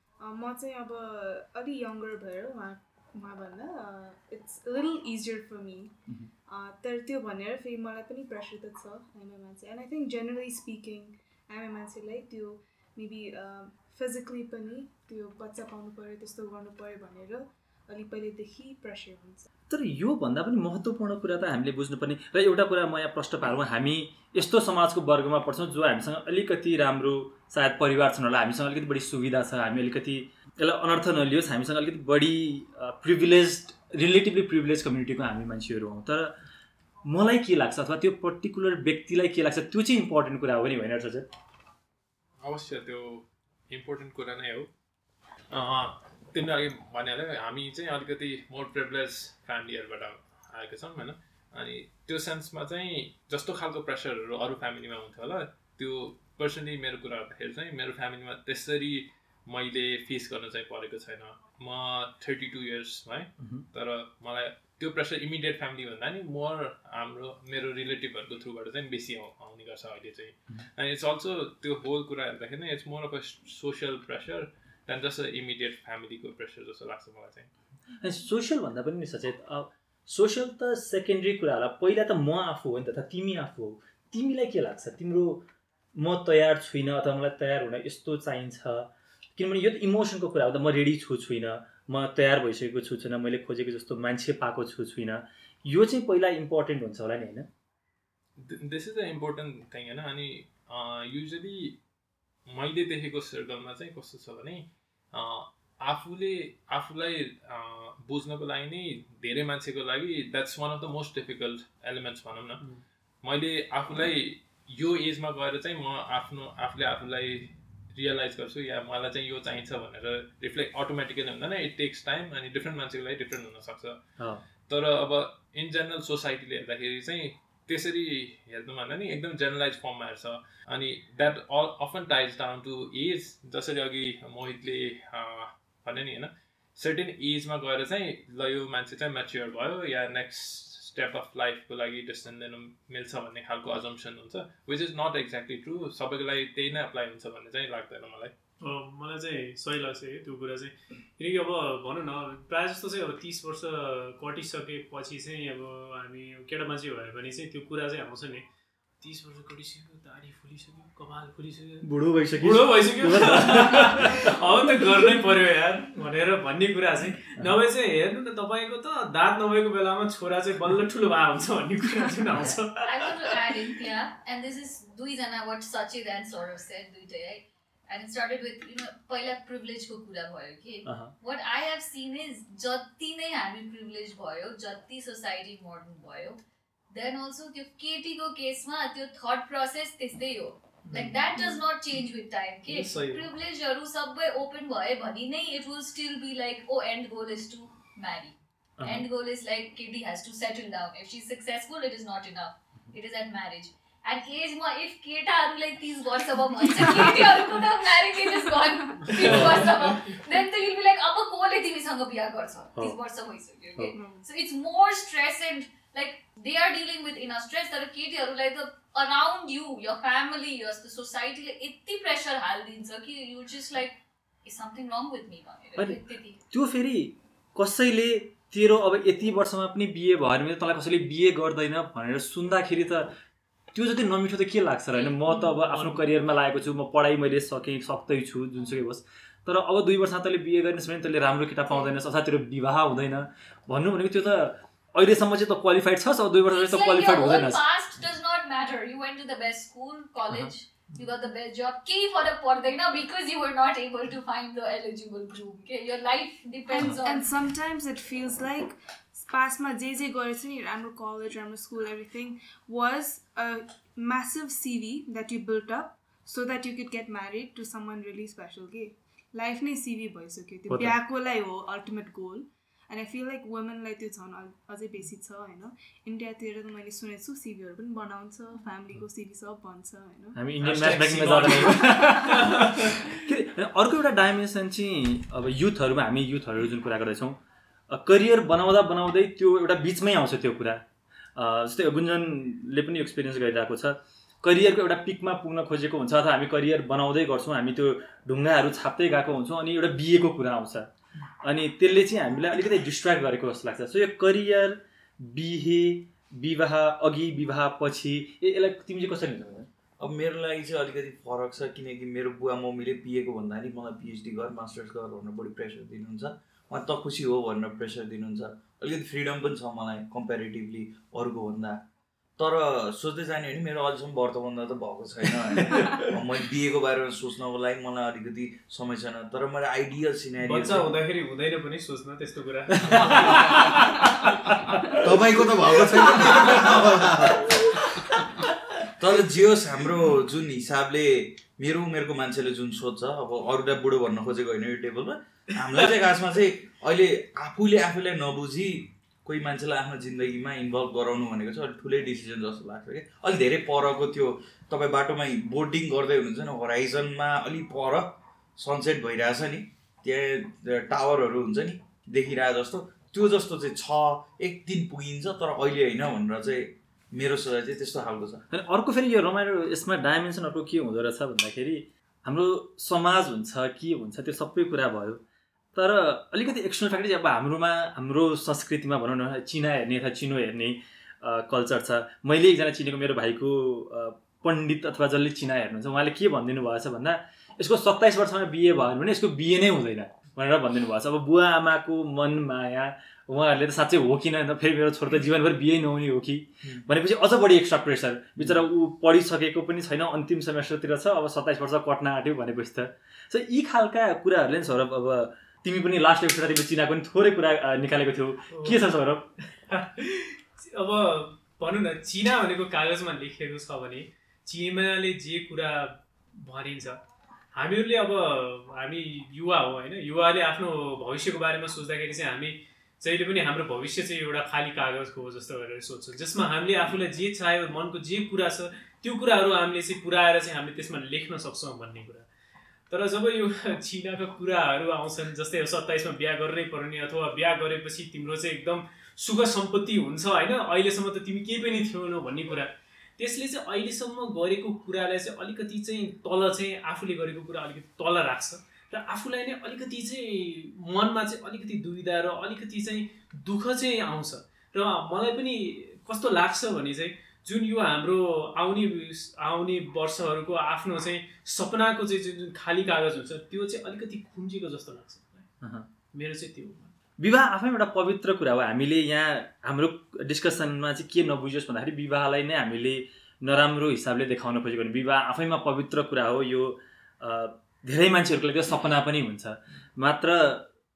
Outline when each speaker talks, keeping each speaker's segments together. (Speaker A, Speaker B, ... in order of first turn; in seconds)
Speaker A: 0.2-5.9, 6.5-19.5, 206.8-209.5, 213.9-214.2, 256.7-280.5
Speaker B: 19.7-36.3, 37.0-41.3, 63.4-63.6, 78.0-85.4, 85.9-97.5, 124.2-124.4, 161.8-164.3, 180.8-181.1, 198.8-199.1, 209.2-209.7, 225.8-233.1, 233.7-247.6, 270.7-270.9, 280.3-309.7, 332.8-333.2, 368.5-375.2, 375.7-409.3, 465.6-465.9, 467.2-480.7
Speaker C: 42.4-44.7, 45.5-77.5, 98.4-101.8, 102.5-112.6, 113.2-124.0, 124.7-148.3
Speaker D: 148.6-158.4, 159.0-161.8, 162.4-173.8, 190.9-191.5, 192.7-193.3, 235.3-236.0, 280.6-283.1, 330.4-334.3, 335.8-336.6, 408.5-408.8, 409.7-432.3, 432.9-465.5, 466.1-466.9
Speaker E: 172.8-186.4, 186.9-226.4, 246.5-257.3
Speaker F: 310.0-321.8, 322.4-331.0, 332.9-333.7, 335.0-337.6, 339.0-368.4